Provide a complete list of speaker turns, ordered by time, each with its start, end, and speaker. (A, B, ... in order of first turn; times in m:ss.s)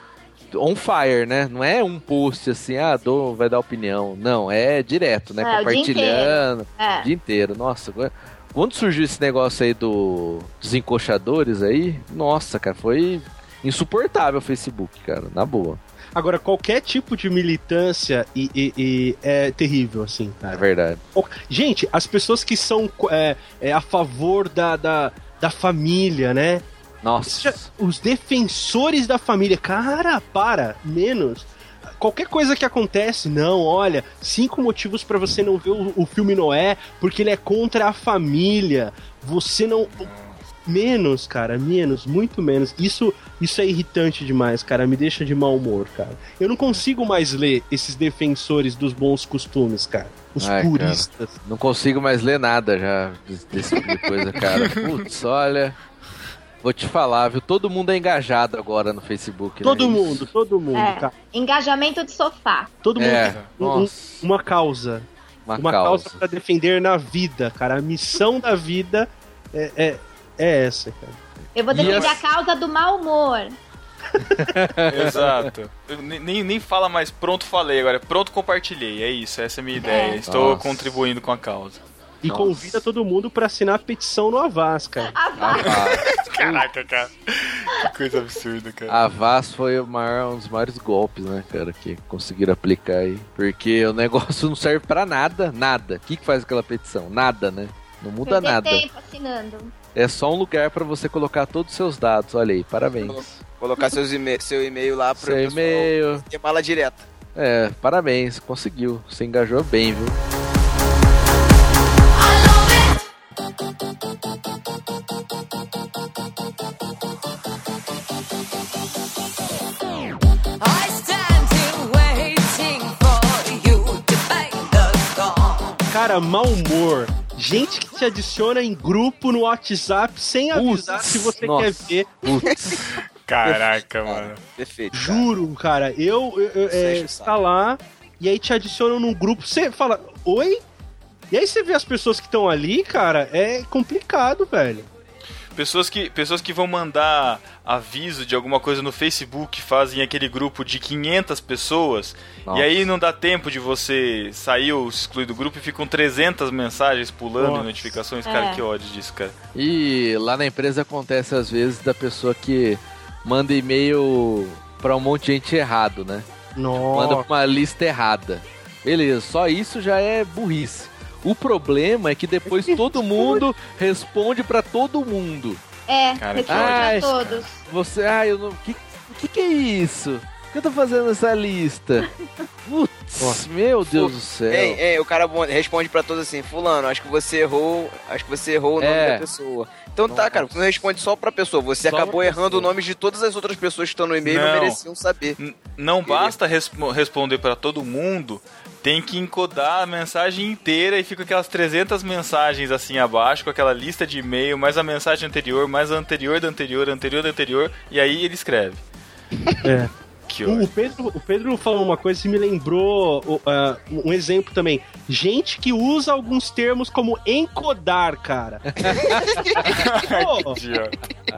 0:00.5-0:15.8 A
0:05.4-0:07.1 B
0:16.1-0:26.6 C
0:20.5-0:21.0 A
0:27.0-0:27.7 A
0:27.3-0:40.1 C
0:40.0-0:40.4 D
0:40.6-0:51.3 C
0:50.4-0:55.8 A
0:56.6-1:00.2 A
0:59.6-1:01.1 C
1:00.7-1:02.7 B
1:02.8-1:11.2 C
1:03.0-1:04.2 A
1:03.2-1:03.5 D
1:05.5-1:06.2 A
1:11.5-1:13.6 B
1:11.7-1:12.2 A
1:11.7-1:12.2 D
1:14.2-1:15.4 A
1:14.9-1:21.8 D
1:19.8-1:20.2 B
1:20.2-1:21.0 A
1:22.2-1:25.1 C
1:22.2-1:22.7 A
1:25.1-1:26.0 B
1:25.4-1:26.6 A
1:25.6-1:29.0 D
1:28.9-1:38.8 A
1:38.2-1:39.7 B
1:39.9-1:43.4 A
1:43.0-1:47.0 E
1:45.2-1:46.2 A
1:47.3-1:50.2 A
1:52.3-1:53.0 F
2:00.6-2:05.7 F
2:05.9-2:12.2 C
2:10.5-2:12.9 A
2:13.2-2:14.4 D
2:14.0-2:15.3 E
2:14.9-2:20.6 C
2:16.7-2:17.3 E
2:21.3-2:24.9 C
2:25.5-2:39.3 D
2:32.4-2:32.9 A
2:37.4-2:38.0 C
2:38.2-2:38.6 B
2:39.5-2:46.3 A
2:46.6-2:47.3 C
2:46.9-2:55.6 A
2:52.5-2:53.4 C
2:55.9-2:57.6 B
2:56.2-2:57.5 D
2:56.5-2:57.1 A
2:57.6-3:02.1 A
3:02.6-3:04.8 A
3:03.9-3:15.4 E
3:08.8-3:09.3 A
3:10.1-3:10.7 A
3:11.8-3:12.7 A
3:14.2-3:14.8 D
3:15.4-3:28.8 D
3:16.0-3:16.3 E
3:29.6-3:29.9 C
3:30.3-3:30.7 D
3:30.4-3:39.0 C
3:38.7-3:39.7 A
3:39.7-3:41.0 D
3:40.0-3:40.6 C